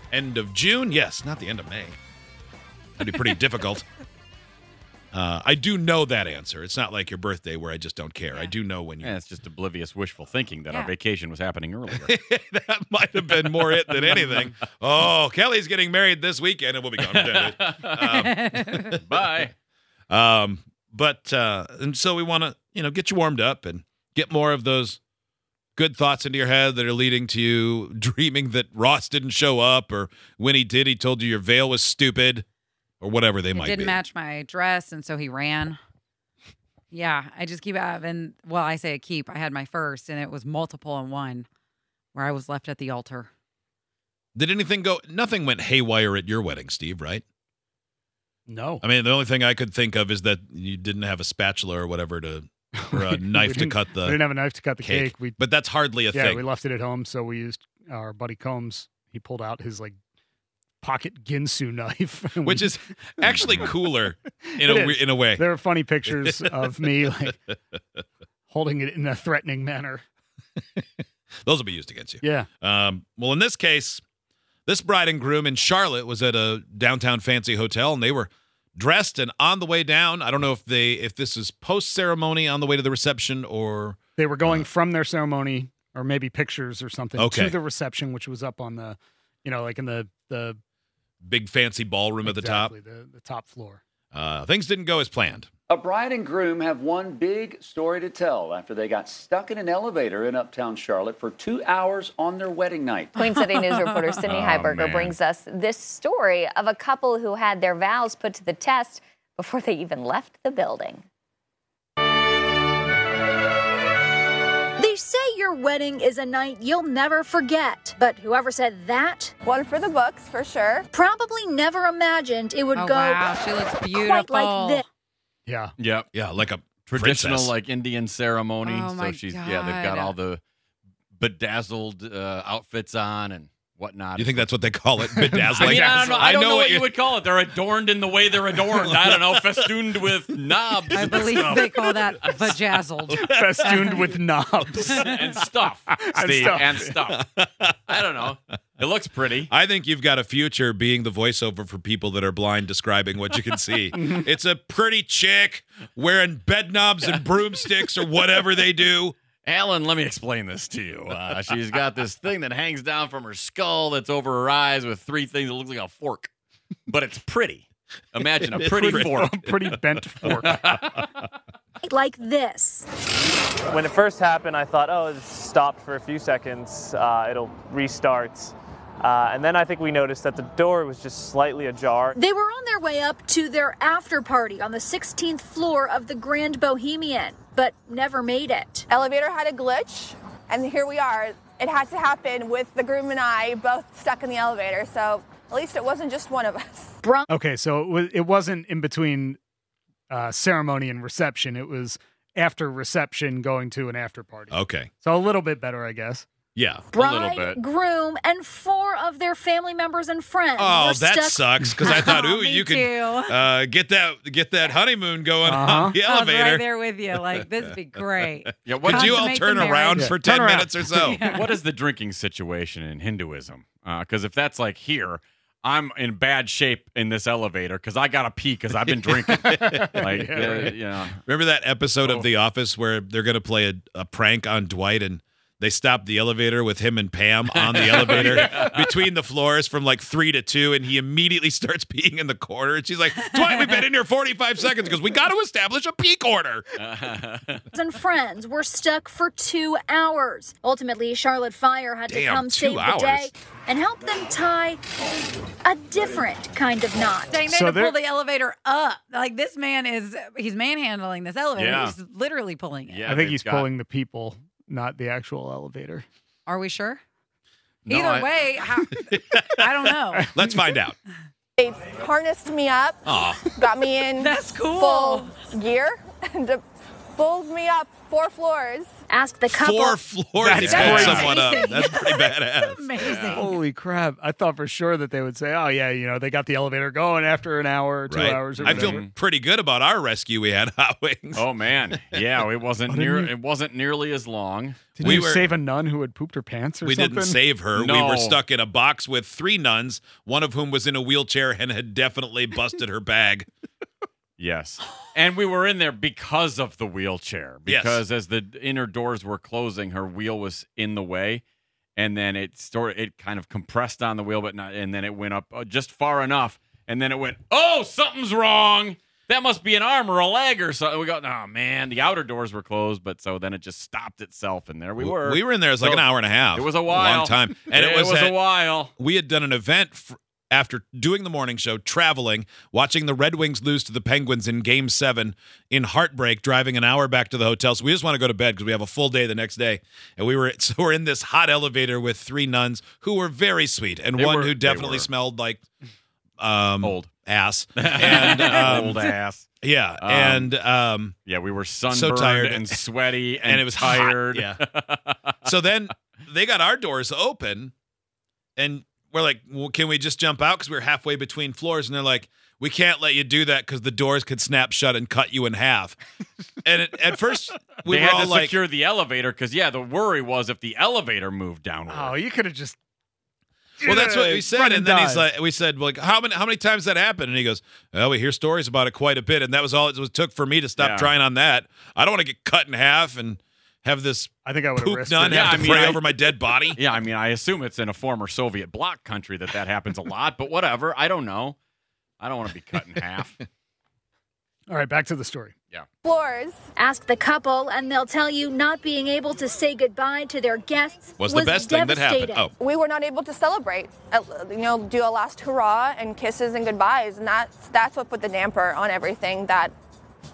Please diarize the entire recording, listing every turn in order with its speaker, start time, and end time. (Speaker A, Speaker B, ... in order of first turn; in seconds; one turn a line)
Speaker A: 0.1-2.0
Speaker A: 3.0-3.9
Speaker A: 5.1-9.2
Speaker B: 9.0-12.1
Speaker A: 11.9-19.0
Speaker B: 13.4-14.6
Speaker B: 17.0-18.0
Speaker C: 18.1-18.9
Speaker B: 19.1-19.5
Speaker A: 20.1-25.0
Speaker A: 25.8-32.5
Speaker A: 33.0-34.0
Speaker C: 33.5-35.8
Speaker C: 36.9-41.5
Speaker C: 42.1-43.3
Speaker A: 44.3-47.2
Speaker D: 48.5-48.8
Speaker A: 48.8-56.4
Speaker D: 52.7-55.4
Speaker D: 56.1-60.0
Speaker D: 60.8-67.4
Speaker A: 62.4-65.5
Speaker A: 66.0-66.8
Speaker D: 68.5-70.0
Speaker A: 71.5-74.0
Speaker D: 72.2-72.5
Speaker A: 74.7-84.7
Speaker D: 84.2-90.6
Speaker A: 87.2-87.6
Speaker A: 91.2-92.7
Speaker D: 92.2-93.8
Speaker A: 94.1-95.5
Speaker E: 95.7-103.2
Speaker F: 103.2-111.0
Speaker C: 103.2-104.2
Speaker B: 104.2-105.2
Speaker G: 114.8-119.3
Speaker H: 119.5-120.9
Speaker G: 120.9-123.3
Speaker C: 122.7-124.8
Speaker G: 123.9-124.8
Speaker D: 125.5-125.7
Speaker B: 125.8-126.1
Speaker A: 126.1-127.5
Speaker B: 126.8-130.4
Speaker C: 128.6-130.1
Speaker B: 131.1-134.5
Speaker A: 134.2-136.9
Speaker D: 135.1-136.2
Speaker B: 135.6-141.6
Speaker A: 138.8-139.7
Speaker C: 140.9-144.2
Speaker D: 141.1-141.6
Speaker D: 143.1-145.3
Speaker B: 144.9-147.2
Speaker D: 146.0-147.0
Speaker A: 147.1-147.8
Speaker B: 147.9-149.5
Speaker A: 149.5-159.2
Speaker B: 159.4-166.3
Speaker B: 166.9-169.4
Speaker A: 168.2-169.1
Speaker D: 168.6-170.7
Speaker B: 170.3-171.1
Speaker G: 171.8-172.9
Speaker I: 173.7-182.2
Speaker G: 182.1-188.9
Speaker H: 188.9-197.0
Speaker G: 197.0-197.3
Speaker D: 197.3-199.4
Speaker D: 200.1-206.3
Speaker A: 204.5-204.9
Speaker A: 206.5-206.9
Speaker G: 206.9-211.5
Speaker B: 206.9-207.6
Speaker A: 210.6-216.7
Speaker C: 211.8-213.4
Speaker D: 215.4-216.0
Speaker C: 216.0-220.1
Speaker A: 218.2-221.2
Speaker B: 218.7-219.4
Speaker D: 219.9-220.9
Speaker C: 221.0-221.5
Speaker B: 221.3-231.2
Speaker D: 229.3-230.8
Speaker A: 229.6-230.0
Speaker A: 231.2-246.6
Speaker B: 232.0-232.3
Speaker B: 237.5-238.9
Speaker D: 238.0-238.8
Speaker B: 246.8-247.6
Speaker G: 247.7-254.8
Speaker A: 252.1-253.3
Speaker G: 255.6-257.4
Speaker C: 257.3-263.1
Speaker D: 257.4-257.9
Speaker B: 261.6-261.9
Speaker B: 262.9-263.7
Speaker D: 263.1-266.1
Speaker C: 266.5-267.0
Speaker B: 267.8-268.3
Speaker C: 267.9-270.3
Speaker A: 269.1-271.0
Speaker H: 271.6-276.6
Speaker A: 273.1-273.4
Speaker C: 274.2-275.3
Speaker H: 277.1-278.9
Speaker G: 279.1-280.0
Speaker A: 279.6-282.9
Speaker D: 280.4-281.4
Speaker C: 280.6-283.6
Speaker B: 280.8-281.4
Speaker B: 283.0-283.4
Speaker D: 283.3-289.1
Speaker A: 288.1-292.2
Speaker B: 288.5-289.1
Speaker B: 291.4-295.1
Speaker D: 292.9-293.3
Speaker D: 295.0-297.4
Speaker A: 295.0-295.5
Speaker A: 296.8-303.5
Speaker B: 297.7-298.4
Speaker B: 304.4-311.4
Speaker A: 307.7-308.0
Speaker B: 311.9-328.9
Speaker A: 325.0-328.4
Speaker A: 329.0-345.7
Speaker B: 344.1-345.1
Speaker A: 346.4-349.1
Speaker B: 346.8-347.1
Speaker B: 347.8-349.5
Speaker C: 348.2-348.6
Speaker A: 349.6-351.1
Speaker B: 350.0-350.6
Speaker B: 351.2-355.2
Speaker A: 351.9-352.8
Speaker A: 353.4-354.6
Speaker A: 355.4-357.7
Speaker A: 358.6-366.0
Speaker A: 366.6-368.6
Speaker B: 367.9-372.2
Speaker D: 371.9-372.8
Speaker D: 373.8-375.3
Speaker A: 373.8-386.8
Speaker B: 380.8-381.1
Speaker D: 384.4-386.0
Speaker B: 385.2-391.6
Speaker B: 392.2-393.4
Speaker D: 394.7-395.5
Speaker H: 396.0-396.6
Speaker G: 396.8-402.5
Speaker A: 401.2-402.5
Speaker H: 402.6-409.7